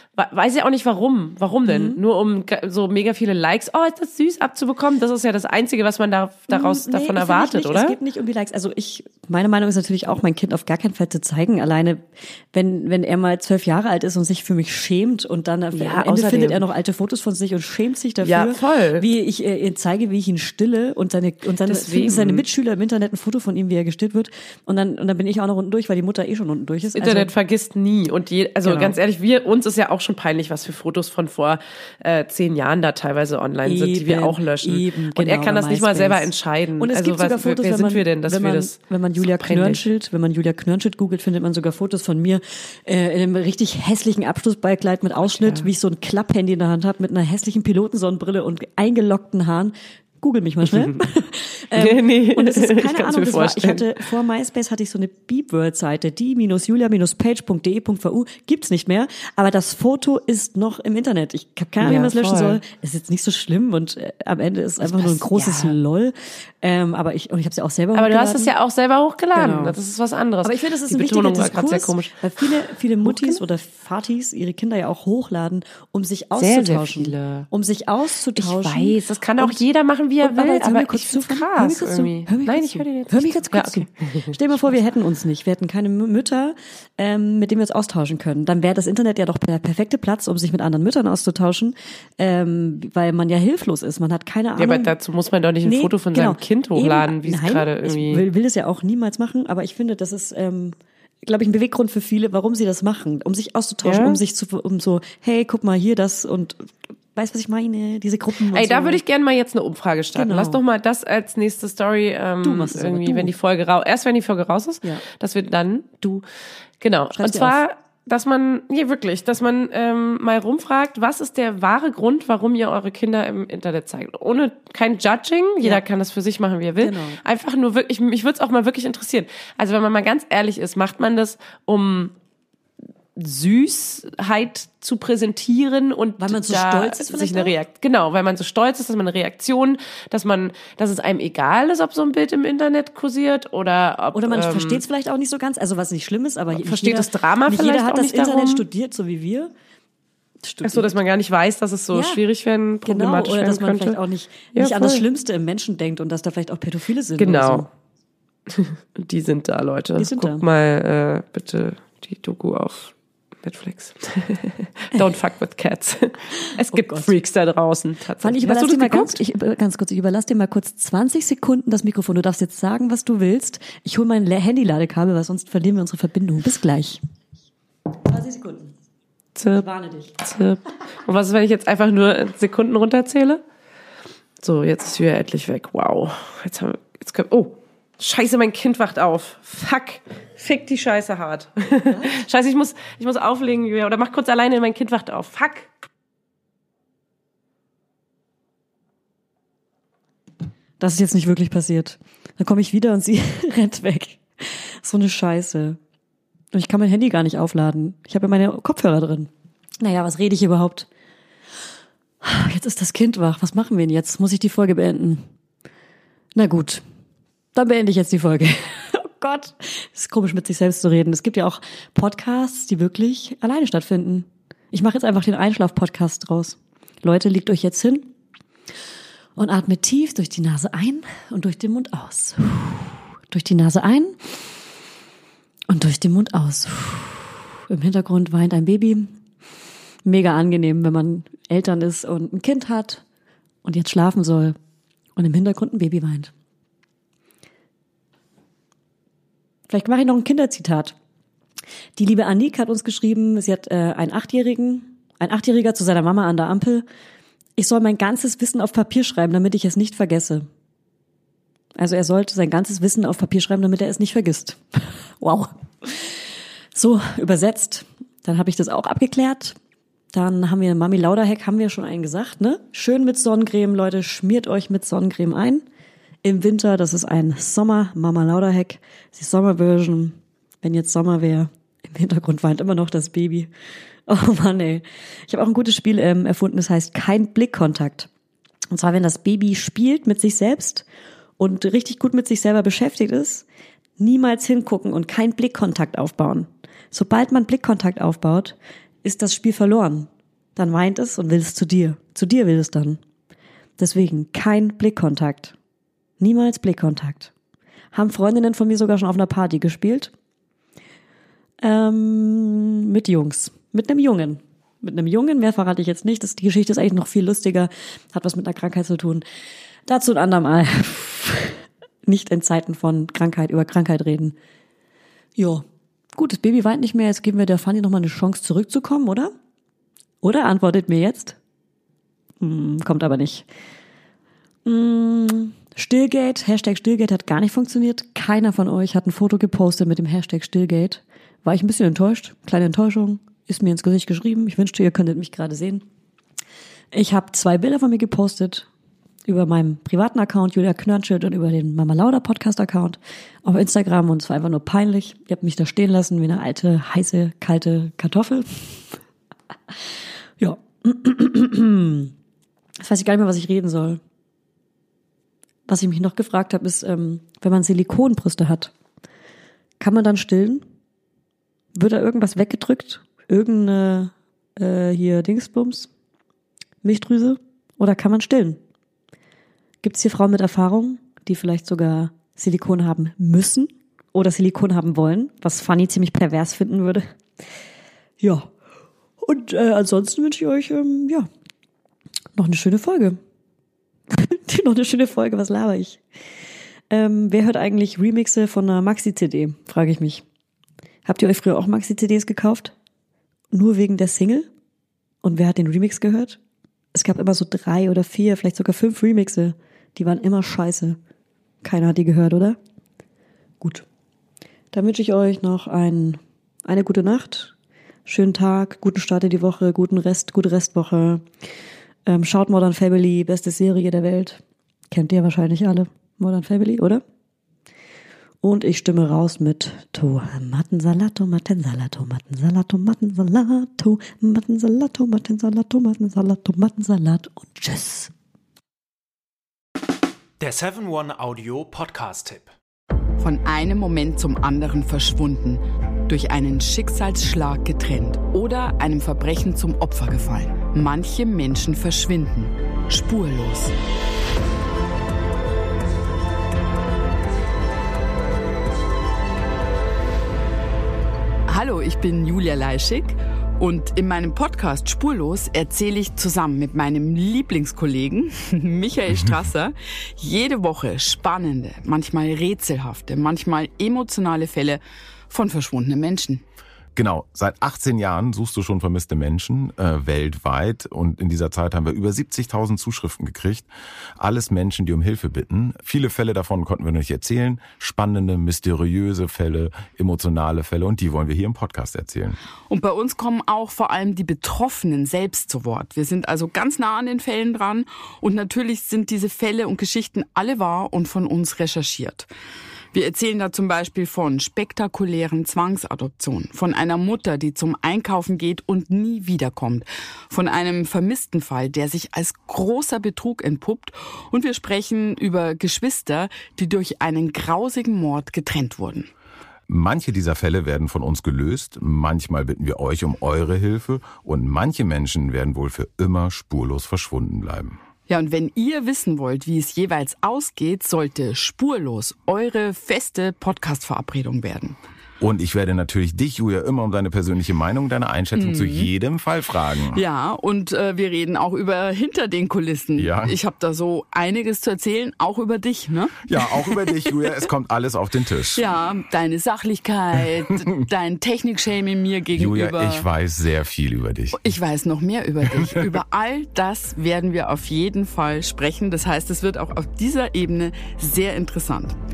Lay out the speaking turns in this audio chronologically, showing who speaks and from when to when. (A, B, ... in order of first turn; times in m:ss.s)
0:00.2-0:08.0 A
0:01.7-0:02.0 B
0:06.5-0:27.3 B
0:15.7-0:16.6 A
0:18.2-0:19.1 A
0:21.6-0:22.4 A
0:27.0-0:39.8 A
0:28.6-0:29.0 B
0:33.6-1:08.5 B
0:45.3-0:45.7 A
0:51.8-0:54.0 A
1:01.8-1:02.6 A
1:04.8-1:05.8 A
1:07.9-1:13.4 A
1:09.3-1:09.8 B
1:10.4-1:19.6 B
1:16.4-1:17.5 A
1:18.4-1:24.7 A
1:20.2-1:34.9 B
1:34.6-1:38.2 A
1:35.6-1:49.0 B
1:43.8-1:44.2 A
1:48.5-1:56.2 A
1:50.2-1:50.6 B
1:52.4-1:53.3 B
1:56.8-2:12.1 A
1:57.1-1:57.6 B
2:06.8-2:07.2 B
2:13.2-2:24.8 A
2:16.2-2:17.6 B
2:24.1-2:29.5 B
2:26.5-2:28.6 A
2:30.4-2:31.0 B
2:30.6-2:34.0 A
2:31.9-2:32.2 B
2:32.8-2:37.7 B
2:34.5-2:35.0 A
2:37.2-2:37.7 A
2:38.5-2:49.2 A
2:40.0-2:40.5 B
2:46.7-2:47.1 B
2:48.2-2:57.0 B
2:58.0-2:58.7 B
2:59.4-3:03.4 A
2:59.6-3:00.1 B
3:04.4-3:15.8 A
3:20.8-3:25.8 B
3:26.5-3:29.3 B
3:29.8-3:30.9 B
3:32.2-3:35.2 B
3:36.4-3:36.8 B
3:37.5-3:48.1 B
3:49.4-3:54.3 B
3:55.7-3:59.2 B
4:00.0-4:03.0 B
4:03.6-4:04.6 B
4:05.2-4:06.3 B
4:09.7-4:11.0 B
4:12.0-4:16.8 B
4:17.6-4:20.5 B
4:21.8-4:26.2 B
4:26.8-4:29.6 B
4:30.1-4:35.6 B
4:36.2-4:43.5 B
4:44.1-4:48.1 B
4:48.7-4:50.9 B
4:51.4-4:53.4 B
4:54.0-5:03.0 B
5:03.8-5:05.6 B
5:06.2-5:07.3 B
5:07.9-5:10.1 B
5:11.6-5:19.2 B
5:19.9-5:24.4 B
5:25.4-5:29.3 B
5:30.2-5:31.4 B
5:32.4-5:33.5 B
5:34.6-5:45.8 B
5:46.9-5:48.7 B
5:49.3-5:59.0 B
6:00.4-6:02.1 B
6:02.8-6:04.0 B
6:05.7-6:08.7 B
6:09.8-6:10.6 B
6:11.7-6:15.9 B
6:16.8-6:18.6 B
6:19.8-6:27.0 B
6:28.2-6:28.5 B
6:29.2-6:31.3 B
6:32.4-6:33.2 B
6:34.1-6:36.0 B
6:36.9-6:40.2 B
6:41.0-6:42.7 B
6:43.5-6:44.5 B
6:45.2-6:46.4 B
6:46.9-6:51.0 B
6:51.6-6:52.6 B
6:54.7-6:57.5 B
6:58.1-7:01.2 B
7:02.1-7:04.4 B
7:04.9-7:07.0 B
7:08.4-7:18.1 B
7:20.4-7:22.5 C
7:23.2-7:33.7 D
7:41.5-7:56.4 D
7:57.0-8:12.4 E
8:12.7-8:22.3 D
8:22.9-8:39.1 D
8:39.7-8:47.8 E
8:48.1-8:54.8 D
8:55.2-9:00.0 E
8:58.4-8:58.9 D
8:59.9-9:07.3 D
9:03.0-9:03.3 E
9:06.2-9:08.7 E
9:08.5-9:13.1 D
9:12.4-9:14.4 E
9:14.3-9:22.0 D